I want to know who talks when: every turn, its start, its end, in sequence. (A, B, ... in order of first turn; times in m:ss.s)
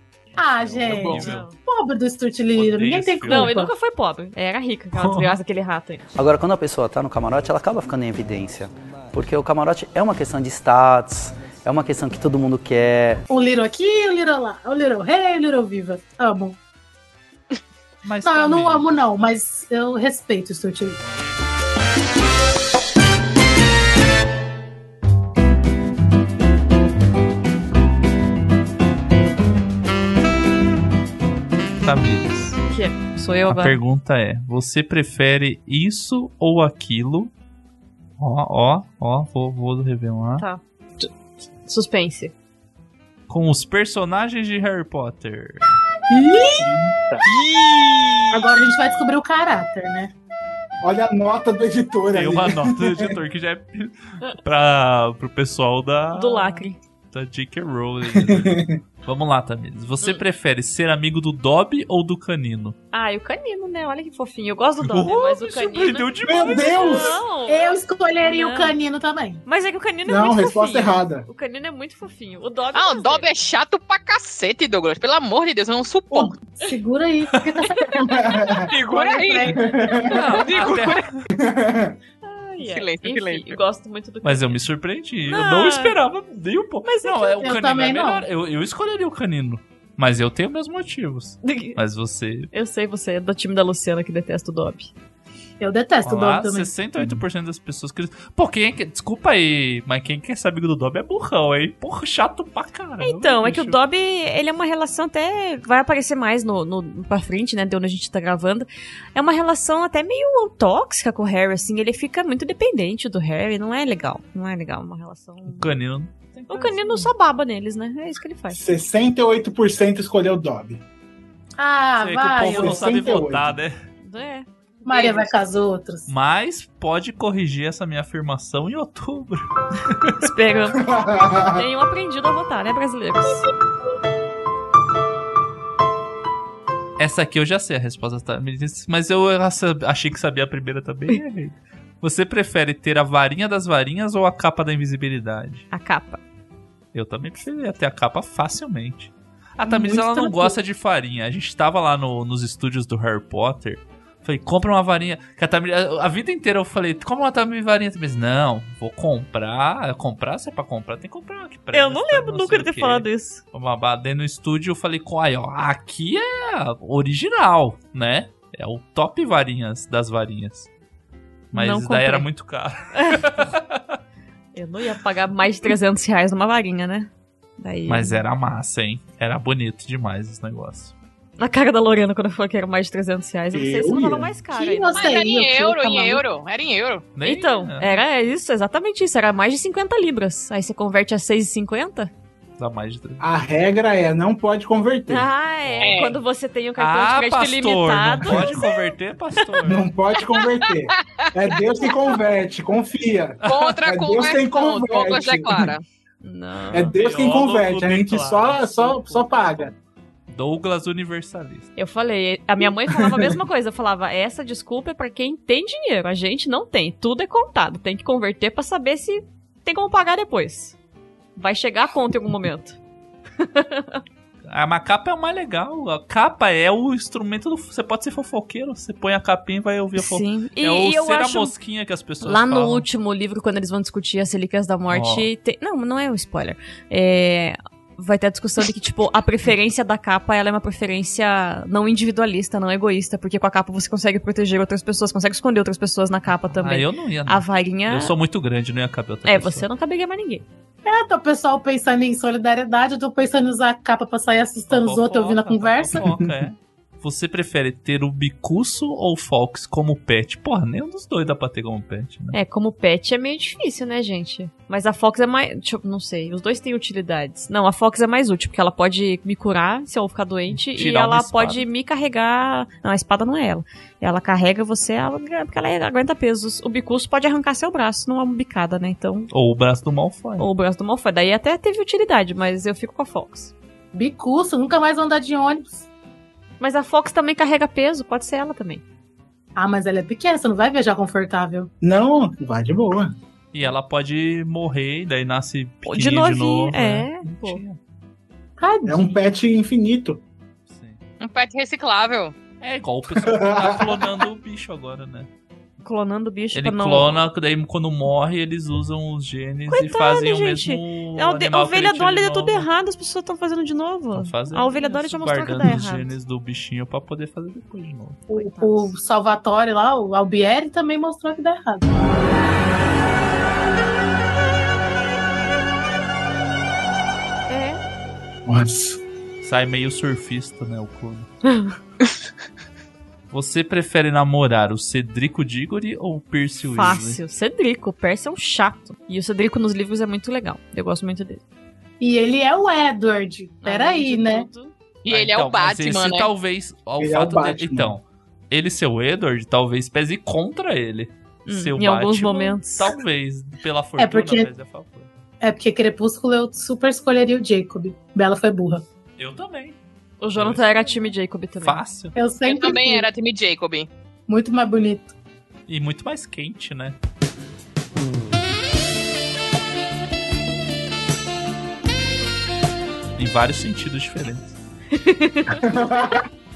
0:00.4-0:03.7 A
0:00.9-0:01.5 B
0:01.1-0:01.6 C
0:02.6-0:03.6 B
0:03.3-0:06.0 C
0:05.0-0:05.4 B
0:06.2-0:13.2 D
0:13.3-0:16.6 A
0:18.0-0:18.9 B
0:18.2-0:21.0 A
0:31.8-0:32.6 B
0:32.6-0:33.8 C
0:33.4-0:37.3 B
0:38.2-0:40.4 B
0:40.4-0:41.1 C
0:41.6-0:42.3 C
0:43.3-0:45.8 B
0:46.1-0:46.7 A
0:46.6-0:46.9 E
0:48.3-0:50.1 A
0:50.8-0:53.2 E
0:52.1-1:02.8 B
0:56.1-0:56.8 C
0:58.1-0:58.8 E
1:02.9-1:08.8 C
1:04.8-1:07.1 B
1:06.2-1:07.2 E
1:06.8-1:09.4 A
1:09.5-1:13.3 C
1:10.1-1:11.3 E
1:12.7-1:16.4 F
1:16.1-1:20.4 A
1:18.0-1:18.7 E
1:18.7-1:19.6 F
1:19.5-1:20.3 E
1:20.1-1:21.2 B
1:20.3-1:21.1 F
1:21.3-1:22.0 E
1:22.2-1:24.6 C
1:22.6-1:23.6 F
1:24.2-1:32.5 B
1:25.3-1:26.0 C
1:26.8-1:27.6 C
1:27.4-1:28.2 A
1:31.4-1:31.8 C
1:32.5-1:34.9 C
1:35.6-1:36.7 A
1:36.0-1:43.8 B
1:43.0-1:55.8 C
1:55.5-1:57.1 B
1:56.5-1:58.6 C
1:58.5-2:00.8 E
2:01.6-2:02.9 A
2:02.0-2:03.8 B
2:02.5-2:03.6 E
2:04.0-2:05.3 C
2:04.9-2:06.1 A
2:06.1-2:10.2 B
2:10.2-2:13.4 C
2:10.7-2:11.7 E
2:17.0-2:25.7 B
2:25.7-2:26.2 C
2:26.9-2:50.7 B
2:29.6-2:30.5 A
2:41.7-2:43.4 C
2:51.5-2:52.3 C
2:51.5-2:54.0 B
2:54.5-2:58.2 C
2:57.9-3:00.9 B
3:01.4-3:05.2 C
3:03.5-3:04.3 E
3:04.5-3:06.2 A
3:04.9-3:07.1 F
3:07.2-3:08.0 B
3:07.2-3:12.1 C
3:12.6-3:13.2 B
3:13.2-3:15.3 E
3:15.1-3:18.9 C
3:15.6-3:16.0 B
3:15.8-3:16.2 F
3:16.8-3:19.9 B
3:18.3-3:18.6 E
3:19.6-3:25.7 E
3:20.3-3:21.9 F
3:23.4-3:23.7 B
3:23.4-3:25.8 F
3:26.2-3:27.0 C
3:26.7-3:29.7 E
3:26.9-3:29.8 B
3:30.3-3:31.7 B
3:31.8-3:40.8 C
3:32.9-3:33.4 E
3:41.4-3:42.8 C
3:43.4-3:44.0 C
3:44.5-3:52.9 B
3:50.0-3:51.5 C
3:52.2-4:08.2 C
3:54.9-3:55.3 B
4:06.4-4:09.7 B
4:09.2-4:10.5 C
4:10.8-4:16.1 A
4:14.7-4:22.4 B
4:16.0-4:16.3 E
4:22.3-4:39.3 C
4:30.5-4:31.6 B
4:39.3-4:40.4 B
4:40.4-4:43.5 C
4:43.9-4:45.9 A
4:46.6-4:48.8 C
4:49.6-4:51.7 A
4:51.8-4:53.2 E
4:53.5-4:57.8 B
4:55.8-4:57.6 C
4:58.6-4:59.2 A
4:58.9-5:00.2 E
5:00.7-5:01.0 B
5:01.2-5:02.4 F
5:02.6-5:05.3 B
5:03.2-5:04.2 E
5:05.8-5:07.3 C
5:06.5-5:12.7 B
5:09.7-5:16.1 C
5:14.1-5:18.3 B
5:18.3-5:18.9 C
5:18.3-5:22.0 A
5:27.5-5:27.8 C
5:28.5-5:29.0 E
5:29.4-5:31.3 B
5:31.4-5:31.7 C
5:33.3-5:37.2 B
5:36.7-5:41.4 C
5:42.0-5:44.5 A
5:43.6-5:44.7 C
5:45.0-5:46.3 F
5:45.1-5:55.1 B
5:47.0-5:47.9 E
5:51.5-5:53.0 C
5:54.0-5:54.5 A
5:55.4-5:58.8 A
5:59.2-5:59.8 B
6:00.2-6:01.8 C
6:00.3-6:01.1 B
6:01.6-6:02.2 B
6:02.2-6:03.1 A
6:02.5-6:03.9 F
6:04.3-6:05.1 A
6:05.7-6:07.0 B
6:13.2-6:14.5 B
6:14.9-6:15.6 C
6:15.5-6:16.2 E